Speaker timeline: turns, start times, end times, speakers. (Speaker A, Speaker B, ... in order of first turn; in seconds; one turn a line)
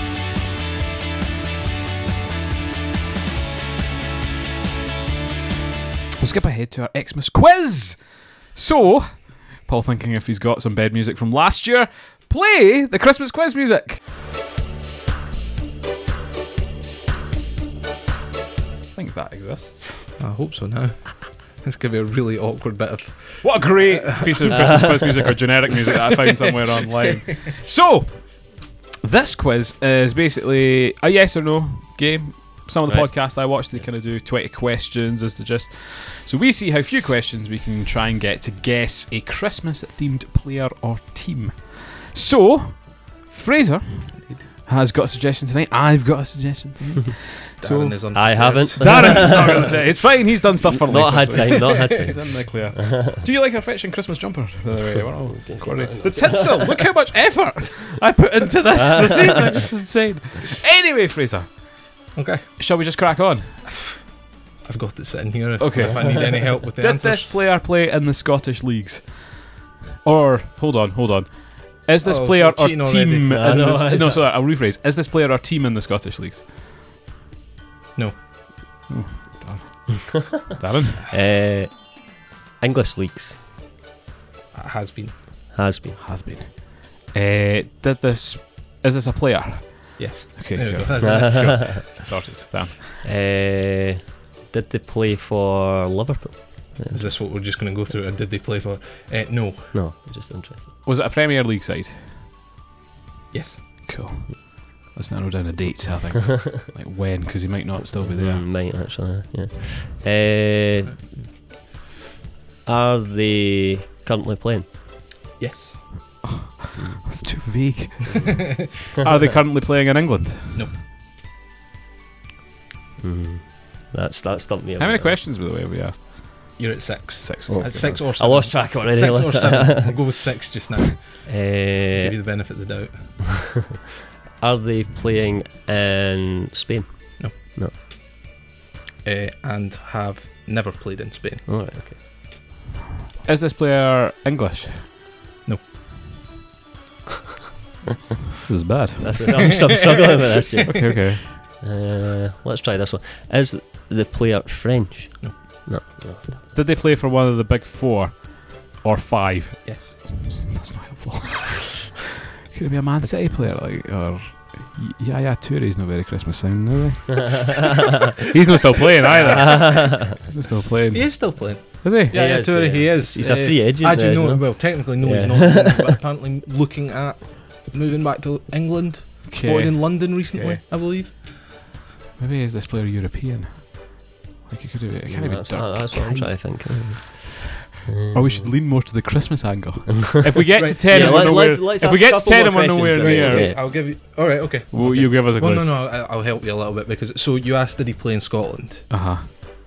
Speaker A: 6.2-14.0
Speaker A: 18.9-20.1
Speaker B: 20.2-25.0
Speaker A: 23.4-61.6
Speaker B: 27.0-27.4
Speaker B: 47.6-49.7
Speaker C: 48.1-49.8
Speaker C: 50.7-53.2
Speaker B: 51.7-52.2
Speaker B: 54.7-55.1
Speaker C: 55.3-56.8
Speaker C: 58.8-59.6
Speaker B: 62.1-62.6
Speaker A: 62.6-63.6
Speaker B: 63.6-67.3
Speaker A: 65.6-69.5
Speaker C: 65.9-66.4
Speaker A: 70.0-76.5
Speaker B: 72.0-73.3
Speaker C: 73.3-74.2
Speaker B: 77.9-78.2
Speaker A: 78.9-81.0
Speaker C: 81.1-81.7
Speaker C: 82.6-83.3
Speaker B: 84.5-85.2
Speaker C: 85.5-86.0
Speaker A: 86.0-93.0
Speaker B: 90.0-91.8
Speaker C: 91.0-91.8
Speaker C: 93.0-97.0
Speaker B: 96.9-99.7
Speaker C: 99.7-100.7
Speaker A: 100.8-102.1
Speaker B: 103.3-103.6
Speaker A: 103.8-108.4
Speaker C: 107.9-111.0
Speaker C: 112.6-114.7
Speaker B: 115.4-115.8
Speaker C: 116.8-117.1
Speaker A: 117.0-118.4
Speaker B: 118.2-118.6
Speaker A: 119.0-120.6
Speaker B: 120.5-120.8
Speaker C: 123.0-125.2
Speaker A: 124.8-126.6
Speaker B: 126.6-131.3
Speaker A: 127.2-127.8
Speaker C: 127.5-130.1
Speaker C: 131.2-132.2
Speaker B: 131.9-133.2
Speaker C: 134.4-137.7
Speaker B: 139.0-141.4
Speaker C: 141.4-142.0
Speaker A: 143.2-144.9
Speaker A: 148.4-149.2
Speaker C: 149.0-150.7
Speaker B: 149.9-150.7
Speaker A: 150.7-151.2
Speaker C: 151.6-156.4
Speaker A: 156.5-162.0
Speaker B: 159.6-160.0
Speaker A: 162.5-172.1
Speaker B: 169.0-169.8
Speaker C: 169.3-170.1
Speaker B: 170.9-181.3
Speaker C: 172.1-175.9
Speaker A: 179.3-180.6
Speaker A: 182.2-186.3
Speaker C: 185.1-187.3
Speaker C: 187.9-188.5
Speaker A: 188.1-193.5
Speaker B: 190.5-191.4
Speaker C: 190.9-193.6
Speaker B: 193.0-198.9
Speaker A: 194.7-195.7
Speaker A: 198.9-199.3